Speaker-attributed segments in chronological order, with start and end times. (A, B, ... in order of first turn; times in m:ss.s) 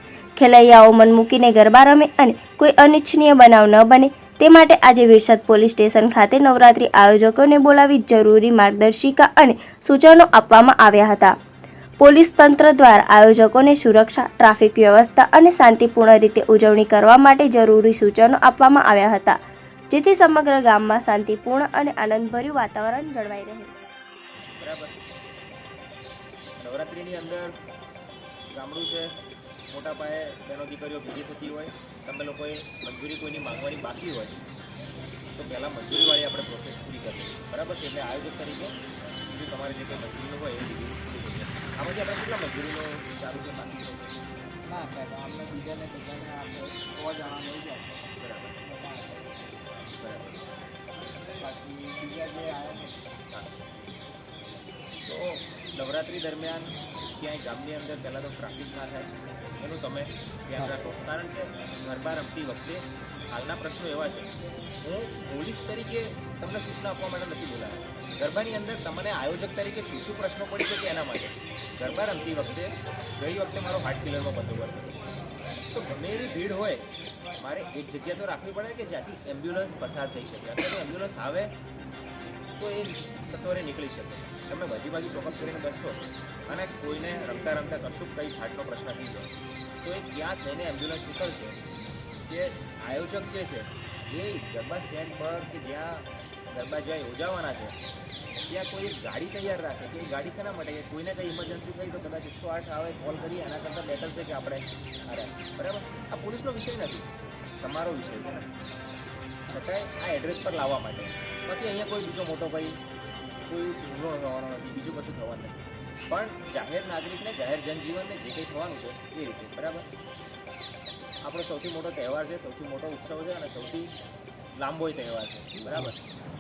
0:00.4-0:11.3 A
0:12.0-0:19.4 A
0:19.9-0:23.7 A
0:24.6-0:25.0 B
0:26.6-0:27.6 B
0:28.5-0:29.1 B
0:29.7-0:34.4 B
0:35.4-0:44.2 B
0:44.7-0:48.0 C
0:48.2-0:48.6 B
0:48.6-0:49.4 C
0:50.0-0:50.4 B
0:51.4-0:53.0 C
0:55.0-1:04.3 B
1:04.8-1:15.0 B
1:15.7-1:21.5 B
1:22.6-1:29.3 B
1:29.8-1:31.6 B
1:32.3-1:37.8 B
1:38.5-1:47.1 B
1:47.6-1:48.5 B
1:49.5-1:52.8 B
1:53.5-1:59.9 B
2:01.2-2:03.9 B
2:04.6-2:06.0 B